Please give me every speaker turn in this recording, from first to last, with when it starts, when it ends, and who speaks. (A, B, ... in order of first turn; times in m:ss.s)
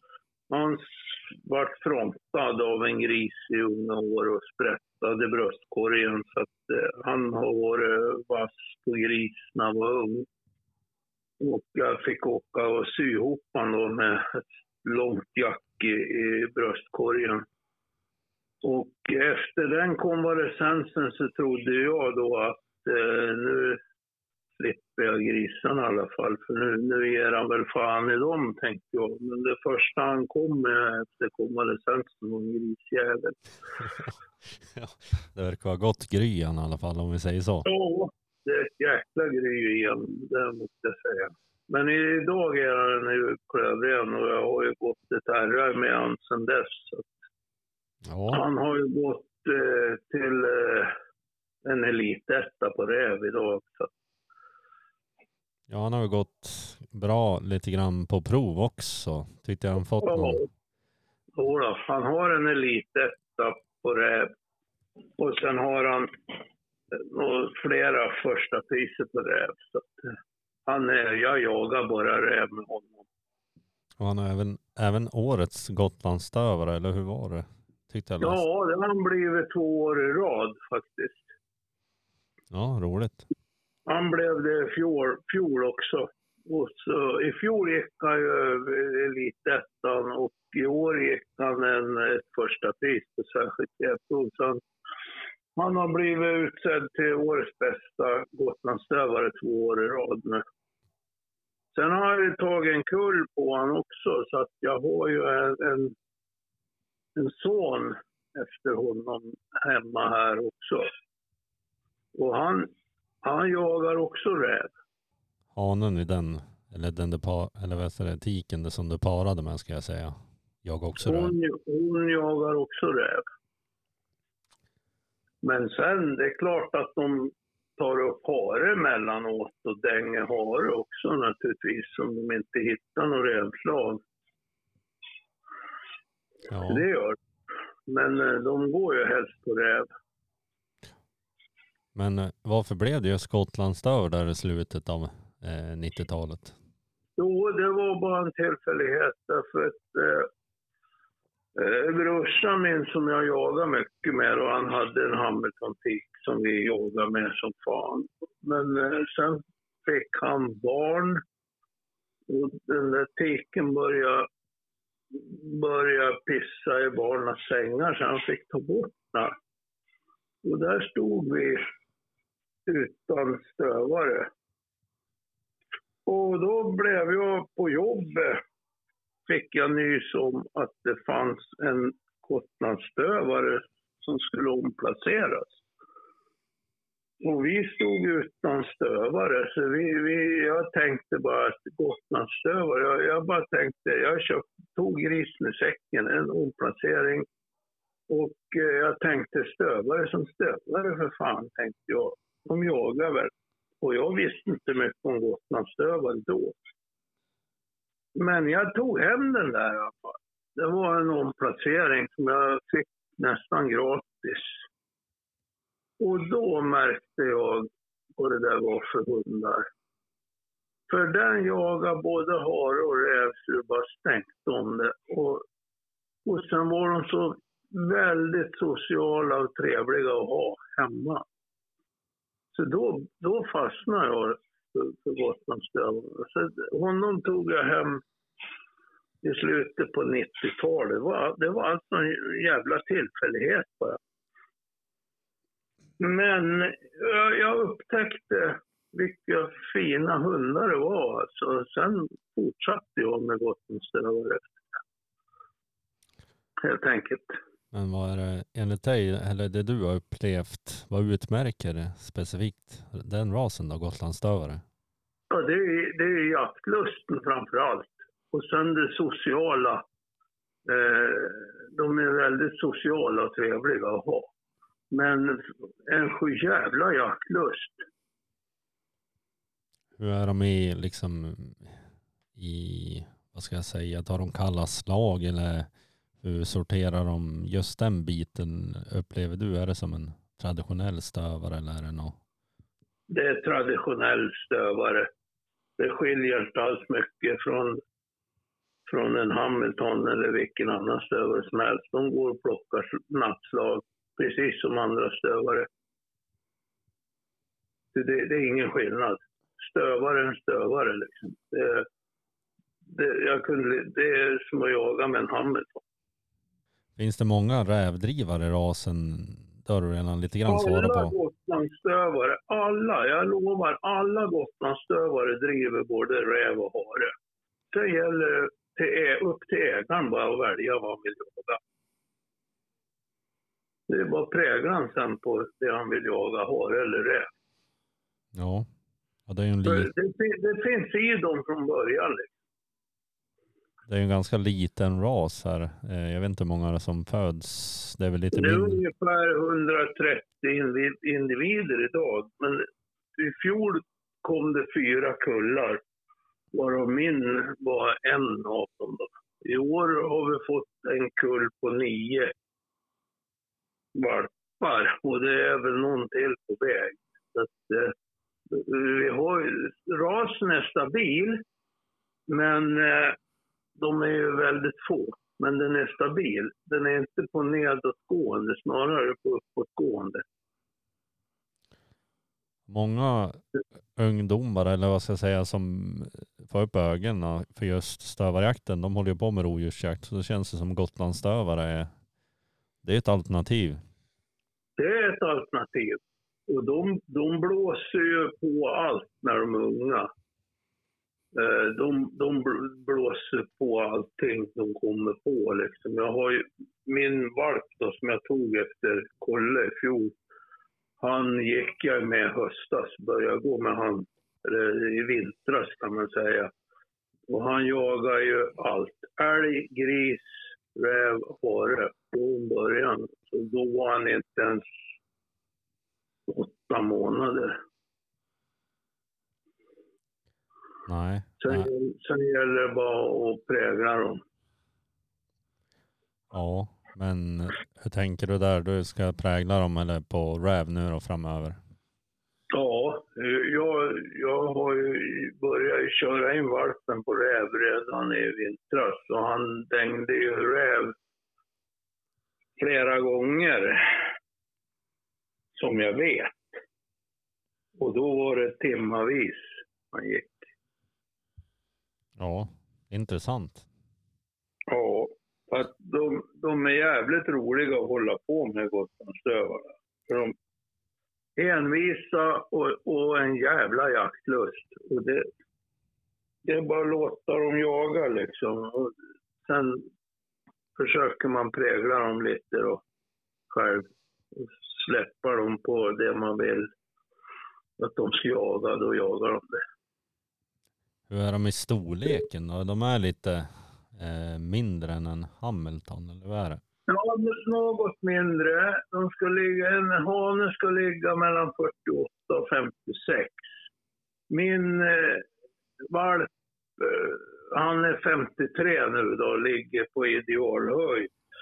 0:00.5-0:10.3 A
0:11.4-0:17.4 A
0:18.6-0:23.8 A
0:24.6-0:33.4 A
0:34.7-0:37.7 B
0:37.6-0:47.1 A
0:48.0-0:48.4 B
0:48.3-0:50.9 A
0:51.6-0:53.9 A
0:55.7-1:00.4 B
1:00.0-1:00.5 A
1:01.4-1:04.3 A
1:05.2-1:10.2 A
1:10.7-1:13.0 A
1:14.0-1:18.4 B
1:18.2-1:21.3 A
1:22.5-1:23.3 B
1:23.9-1:34.6 A
1:35.6-1:40.4 A
1:41.7-1:45.9 A
1:47.2-1:50.9 A
1:52.2-1:52.7 A
1:53.2-1:54.7 A
1:55.5-2:01.3 B
2:01.0-2:03.2 A
2:05.4-2:14.0 A
2:16.5-2:16.8 B
2:16.7-2:17.2 A
2:17.9-2:19.9 A
2:21.9-2:26.6 B
2:27.2-2:30.3 A
2:31.6-2:41.2 A
2:42.3-2:44.3 A
2:45.1-2:49.3 A
2:50.4-2:51.7 A
2:52.7-2:54.3 A
2:56.0-2:58.4 A
2:59.3-3:05.6 A
3:07.2-3:17.2 A
3:18.1-3:26.6 A
3:28.2-3:34.6 A
3:36.0-3:39.7 A
3:40.9-3:45.4 A
3:46.2-3:51.2 A
3:52.5-3:58.0 A
3:59.2-4:04.0 A
4:06.0-4:14.8 A
4:16.6-4:17.4 A
4:17.7-4:24.6 B
4:25.3-4:29.8 A
4:30.6-4:34.3 A
4:34.9-4:37.8 A
4:40.0-4:41.8 B
4:42.4-4:45.7 B
4:46.2-4:52.2 B
4:53.1-4:55.1 A
4:55.8-4:57.8 A
4:58.9-5:05.7 A
5:07.9-5:11.8 A
5:12.9-5:15.8 A
5:17.0-5:21.1 B
5:20.5-5:27.1 A
5:27.7-5:31.6 A
5:33.9-5:37.3 A
5:38.3-5:38.7 B
5:39.3-5:39.9 B
5:39.6-5:42.3 A
5:43.9-5:48.8 B
5:48.3-5:52.7 A
5:53.2-5:55.8 A
5:56.5-6:02.3 A
6:03.9-6:07.9 A
6:08.5-6:11.4 A
6:12.3-6:13.2 A
6:13.8-6:20.2 A
6:22.7-6:31.9 B
6:32.8-6:33.8 B
6:34.8-6:40.1 A
6:41.3-6:50.1 A
6:51.0-6:56.5 A
6:57.3-7:04.6 A
7:06.3-7:07.6 A
7:10.9-7:11.7 B
7:11.4-7:14.2 A
7:16.3-7:21.6 B
7:22.5-7:30.9 A
7:32.6-7:33.8 A
7:35.5-7:36.4 A
7:37.8-7:40.5 A
7:42.2-7:43.6 B
7:44.7-7:50.3 A
7:51.4-7:55.3 A
7:56.4-7:58.9 A
7:59.4-7:59.8 A
8:00.8-8:02.8 A
8:03.5-8:06.7 A
8:07.8-8:09.6 A
8:11.1-8:16.6 B
8:16.9-8:23.4 A
8:24.3-8:25.2 A
8:25.9-8:31.1 A